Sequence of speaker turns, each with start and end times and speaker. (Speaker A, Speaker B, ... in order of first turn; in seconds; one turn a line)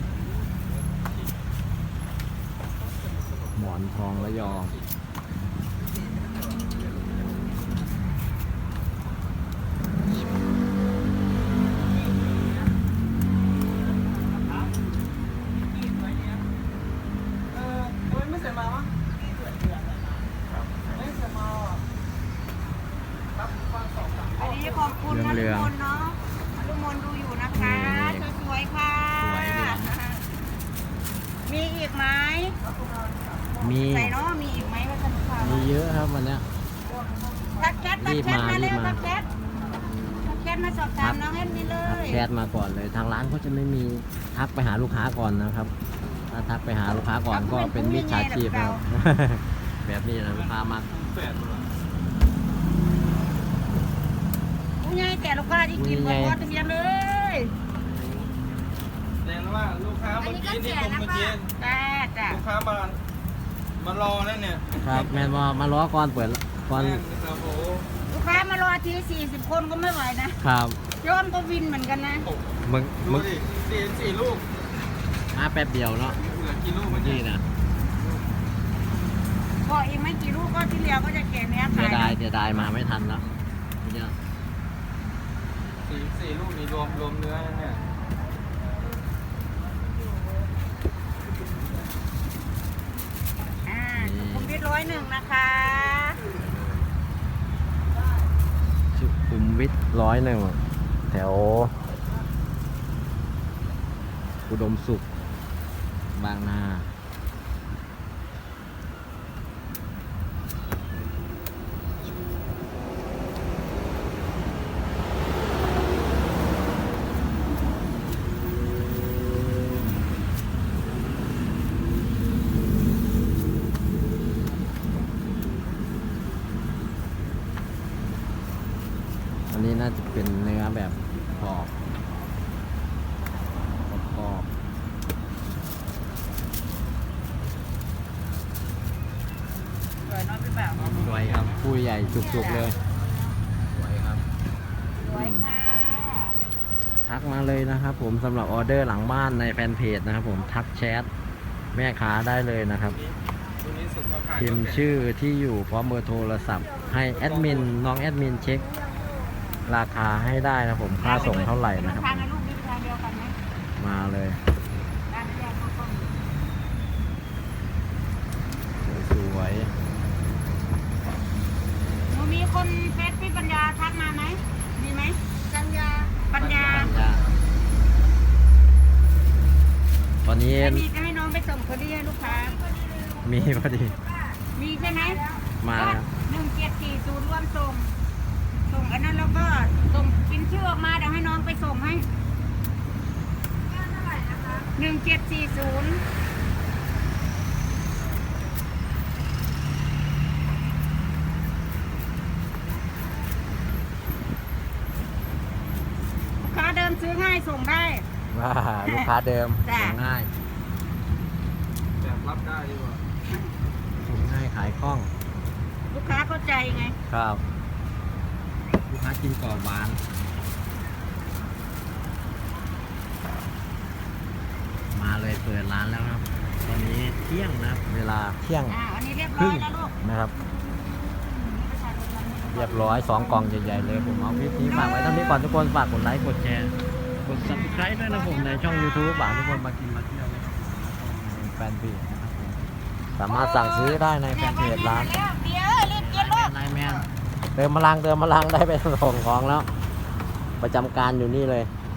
Speaker A: 3.5-4.8
Speaker B: 4.2-4.9
Speaker B: 17.7-18.9
Speaker B: 20.9-21.7
Speaker B: 23.4-24.3
Speaker C: 24.4-30.2
Speaker A: 25.1-25.7
Speaker A: 27.6-28.3
Speaker A: 29.2-29.9
Speaker C: 31.5-32.6
Speaker A: 33.6-34.1
Speaker C: 33.8-35.7
Speaker A: 35.4-36.5
Speaker C: 37.6-39.3
Speaker A: 38.0-39.0
Speaker C: 40.2-42.3
Speaker A: 41.8-45.7
Speaker A: 46.3-50.9
Speaker C: 47.3-48.8
Speaker B: 50.2-51.7
Speaker C: 54.8-57.5
Speaker A: 55.7-56.4
Speaker B: 57.8-58.3
Speaker B: 59.2-61.5
Speaker C: 60.2-62.4
Speaker B: 62.3-63.0
Speaker B: 63.8-65.4
Speaker A: 64.8-67.0
Speaker B: 66.7-67.9
Speaker C: 68.1-70.4
Speaker A: 70.4-70.8
Speaker C: 70.9-72.3
Speaker A: 72.7-73.3
Speaker B: 73.0-74.5
Speaker A: 75.3-76.2
Speaker B: 76.0-77.2
Speaker A: 76.9-77.4
Speaker C: 79.6-82.2
Speaker A: 81.7-83.2
Speaker A: 83.8-84.1
Speaker B: 85.8-87.8
Speaker C: 93.7-96.2
Speaker A: 94.0-94.6
Speaker A: 96.3-96.9
Speaker A: 98.9-100.6
Speaker A: 101.1-101.7
Speaker A: 104.5-105.0
Speaker A: 106.2-106.9
Speaker A: 129.5-131.7
Speaker A: 133.9-134.5
Speaker C: 140.0-141.2
Speaker B: 140.8-141.5
Speaker A: 140.8-142.8
Speaker C: 142.2-142.8
Speaker A: 143.7-144.2
Speaker C: 145.0-146.4
Speaker A: 145.1-145.4
Speaker A: 147.1-151.1
Speaker A: 151.7-153.0
Speaker B: 152.8-155.1
Speaker A: 154.4-158.7
Speaker B: 157.1-157.7
Speaker A: 159.7-162.3
Speaker C: 161.0-163.4
Speaker B: 161.1-161.5
Speaker A: 163.8-164.4
Speaker C: 165.1-166.1
Speaker A: 168.8-169.7
Speaker C: 172.1-176.9
Speaker B: 176.3-177.3
Speaker A: 176.7-177.2
Speaker A: 180.2-180.9
Speaker C: 180.6-182.6
Speaker A: 183.2-184.0
Speaker C: 184.6-187.9
Speaker A: 185.6-186.1
Speaker C: 188.7-192.1
Speaker C: 194.7-196.0
Speaker C: 206.4-208.1
Speaker A: 208.3-210.3
Speaker C: 209.7-210.0
Speaker B: 212.0-213.0
Speaker A: 214.0-215.1
Speaker C: 215.9-217.0
Speaker A: 217.1-217.4
Speaker A: 218.9-220.0
Speaker A: 224.9-228.8
Speaker C: 228.7-229.9
Speaker A: 229.4-230.3
Speaker C: 231.0-233.3
Speaker A: 232.5-236.7
Speaker C: 234.7-235.3
Speaker A: 237.2-242.6
Speaker C: 237.4-239.6
Speaker A: 243.2-245.1
Speaker C: 243.3-247.0
Speaker A: 245.9-249.7
Speaker A: 250.6-251.7